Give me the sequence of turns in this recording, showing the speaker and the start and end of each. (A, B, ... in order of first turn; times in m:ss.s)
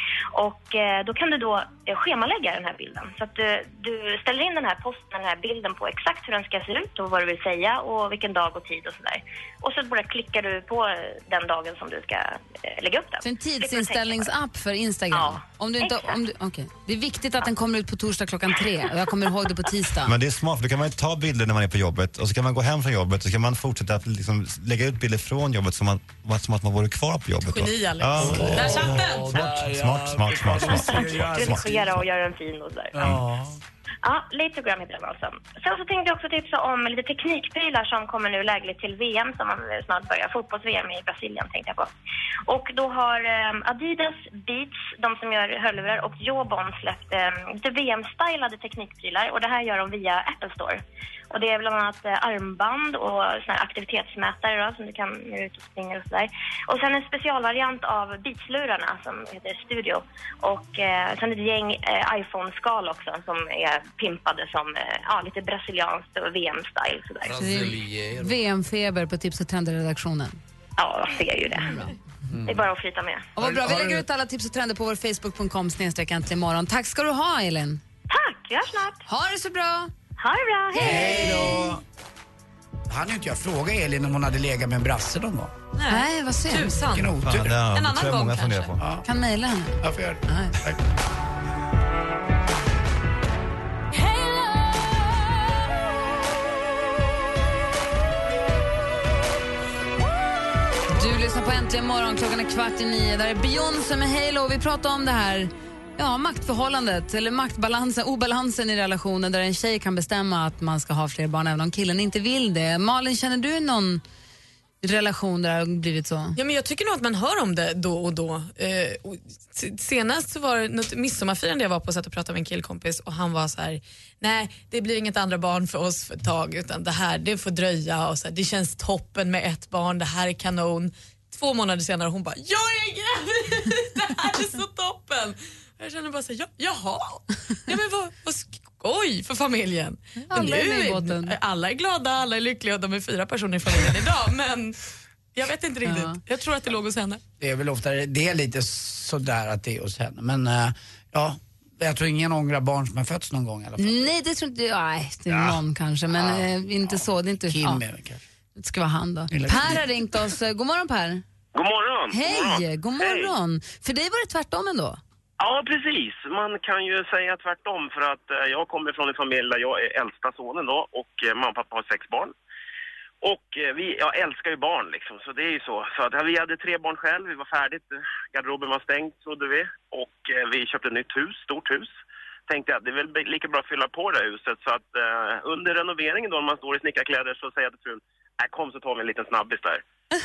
0:00.3-0:14.3 A
0:13.2-0:20.2 B
0:15.1-0:16.2 A
0:20.0-0:31.7 C
0:27.4-0:29.4 D
0:28.2-0:32.0 E
0:30.7-0:33.0 A
0:33.0-0:33.6 E
0:34.0-0:41.9 A
0:42.4-1:07.4 A
1:07.2-1:08.4 E
1:07.4-1:10.4 B
1:10.8-1:11.9 A
1:11.6-1:11.9 B
1:12.3-1:12.6 E
1:12.4-1:13.3 A
1:13.4-1:17.8 B
1:13.4-1:14.0 E
1:18.1-1:19.0 A
1:19.1-1:19.9 B
1:20.2-1:21.5 A
1:20.7-1:21.6 B
1:20.8-1:21.8 E
1:22.9-1:25.6 E
1:25.7-1:28.8 D
1:25.9-1:26.8 B
1:26.8-1:27.6 E
1:27.2-1:28.8 C
1:28.8-1:29.0 E
1:29.0-1:30.6 B
1:29.8-1:30.8 E
1:40.9-1:54.0 B
1:54.8-1:56.4 B
1:56.3-2:24.8 D
2:20.3-2:21.4 B
2:25.3-2:27.2 D
2:25.8-2:26.2 B
2:27.4-2:34.1 E
2:33.8-2:37.8 B
2:35.3-2:35.6 E
2:36.1-2:36.5 E
2:37.5-2:38.2 E
2:38.6-2:41.2 B
2:39.3-2:39.8 E
2:41.5-2:43.3 F
2:42.1-2:45.0 B
2:45.4-2:52.3 F
2:53.2-3:01.9 F
3:02.5-3:09.8 F